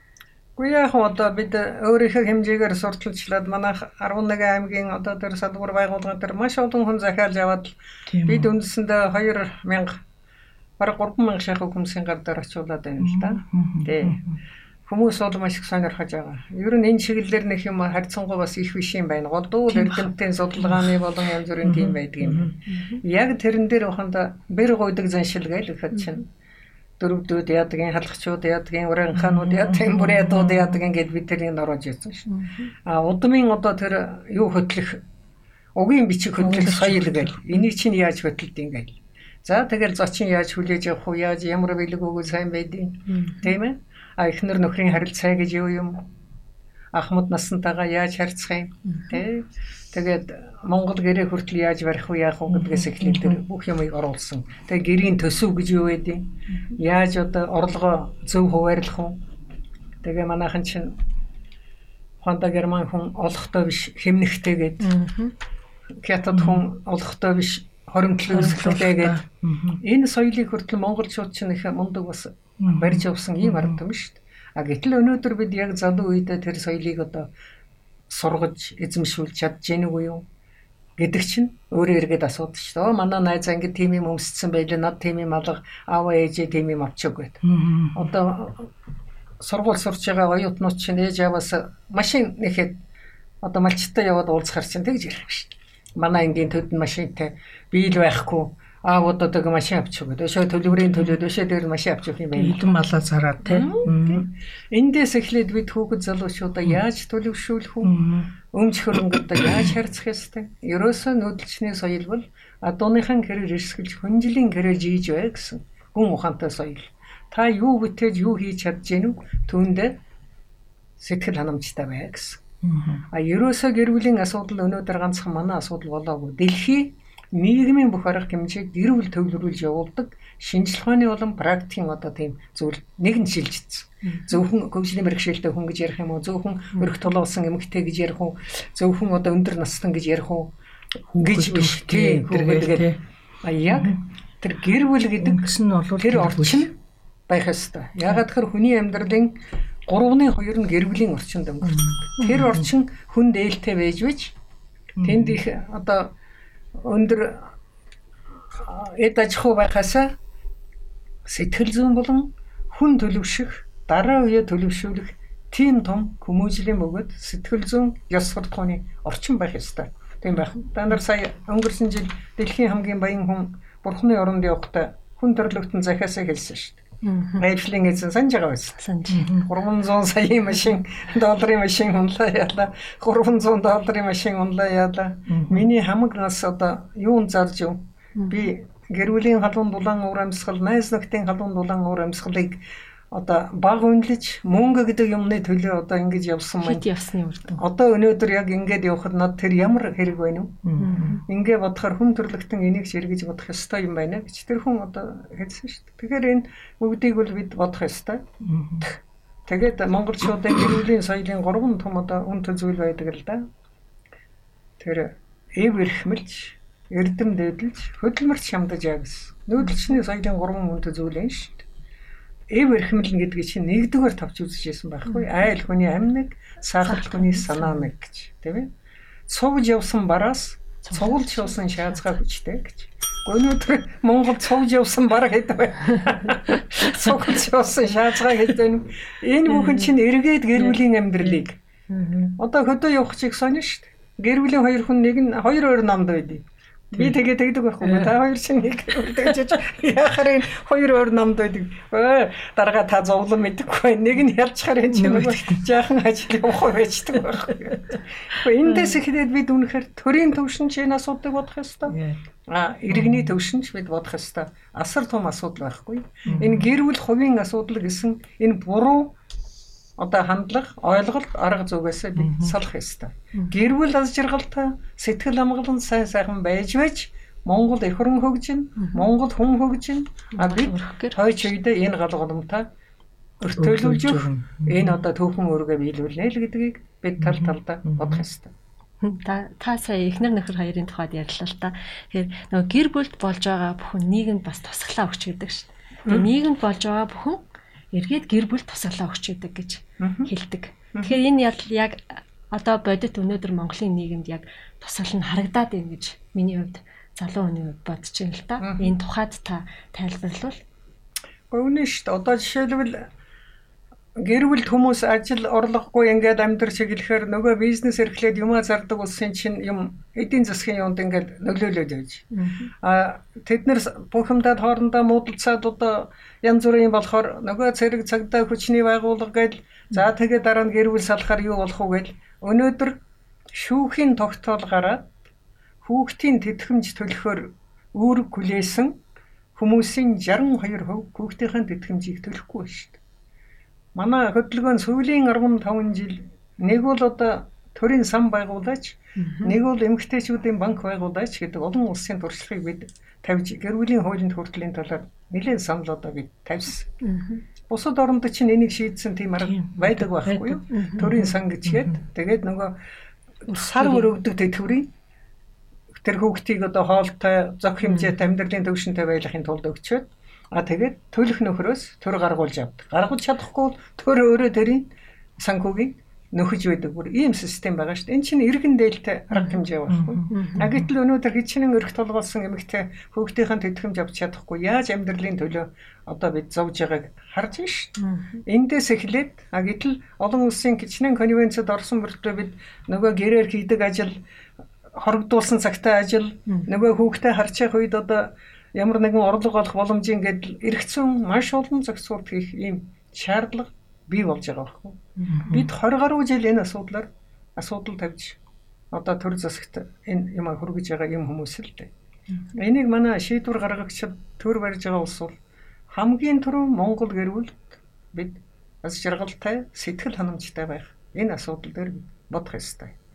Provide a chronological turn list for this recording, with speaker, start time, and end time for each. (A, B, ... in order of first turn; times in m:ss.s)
0:00.6-0:10.0 A
0:08.1-0:08.5 B
0:10.8-0:14.2 A
0:13.0-0:14.4 B
0:14.9-0:26.3 A
0:19.7-0:21.0 B
0:21.6-0:22.6 B
0:22.7-0:23.0 C
0:27.0-0:32.3 A
0:29.2-0:30.8 B
0:32.3-0:32.7 C
0:32.9-0:35.0 A
0:35.8-0:46.1 A
0:36.4-0:37.6 B
0:43.1-0:43.4 C
0:46.9-0:59.2 A
0:48.9-0:49.2 C
0:53.0-0:53.3 B
1:00.0-1:01.0 A
1:02.2-1:04.9 A
1:04.8-1:05.3 C
1:06.0-1:09.2 A
1:06.3-1:06.6 B
1:08.3-1:09.8 B
1:09.8-1:17.3 A
1:12.6-1:13.8 B
1:18.1-1:20.2 A
1:21.0-1:27.4 A
1:27.4-1:28.1 B
1:27.9-1:28.7 A
1:29.4-1:32.8 A
1:33.4-1:42.7 A
1:42.3-1:44.3 B
1:43.5-1:48.0 A
1:47.8-1:48.3 B
1:48.5-2:00.0 A
1:49.1-1:49.7 B
2:01.0-2:02.4 A
2:02.6-2:03.0 B
2:03.1-2:20.5 A
2:14.0-2:14.4 C
2:21.1-2:23.0 B
2:21.2-2:22.9 A
2:23.4-2:26.8 A
2:23.7-2:24.0 B
2:25.2-2:26.7 B
2:27.3-2:34.3 A
2:31.6-2:32.7 B
2:35.0-2:35.4 B
2:35.0-2:36.1 A
2:36.8-2:37.5 A
2:38.5-2:40.1 A
2:41.3-2:56.8 A
2:57.0-2:57.4 C
2:57.4-2:58.8 A
2:58.8-2:59.3 C
2:59.1-2:59.5 B
2:59.3-3:16.8 A
3:05.3-3:05.7 B
3:08.2-3:08.5 C
3:16.6-3:17.6 C
3:17.6-3:20.6 A
3:20.6-3:21.2 B
3:20.8-3:21.2 C
3:21.2-3:28.3 A
3:28.4-3:28.9 B
3:29.5-3:33.5 A
3:34.8-3:41.6 A
3:42.5-3:48.7 A
3:46.8-3:47.9 C
3:49.3-4:01.6 A
3:50.9-3:52.0 C
4:01.9-4:02.2 C
4:02.4-4:29.2 A
4:14.9-4:15.7 B
4:17.3-4:17.8 B
4:21.9-4:22.2 B
4:22.9-4:23.3 B
4:26.2-4:26.7 B
4:30.0-4:42.7 A
4:32.2-4:32.5 B
4:38.8-4:39.1 C
4:40.4-4:41.5 C
4:43.4-4:48.5 A
4:43.6-4:45.0 B
4:47.2-4:48.2 B
4:49.0-5:10.6 C
5:00.0-5:00.3 A
5:08.6-5:08.9 A
5:11.5-5:13.1 A
5:14.2-5:22.3 A
5:22.3-5:22.7 C
5:22.8-5:33.0 A
5:33.5-5:35.1 A
5:35.8-5:39.0 A
5:39.6-5:43.0 A
5:44.0-5:56.9 A
5:49.2-5:49.6 C
5:57.0-5:57.4 C
5:57.7-6:02.8 A
5:59.4-6:00.6 B
6:00.7-6:01.3 C
6:01.7-6:02.0 B
6:03.5-6:04.9 A
6:03.5-6:04.1 C
6:06.0-6:34.2 A
6:07.8-6:08.1 C
6:19.3-6:20.9 B
6:20.3-6:20.7 C
6:28.0-6:28.4 C
6:35.0-6:48.4 A
6:45.2-6:45.7 B
6:48.9-6:51.9 A
6:52.6-6:55.4 A
6:55.9-7:03.0 A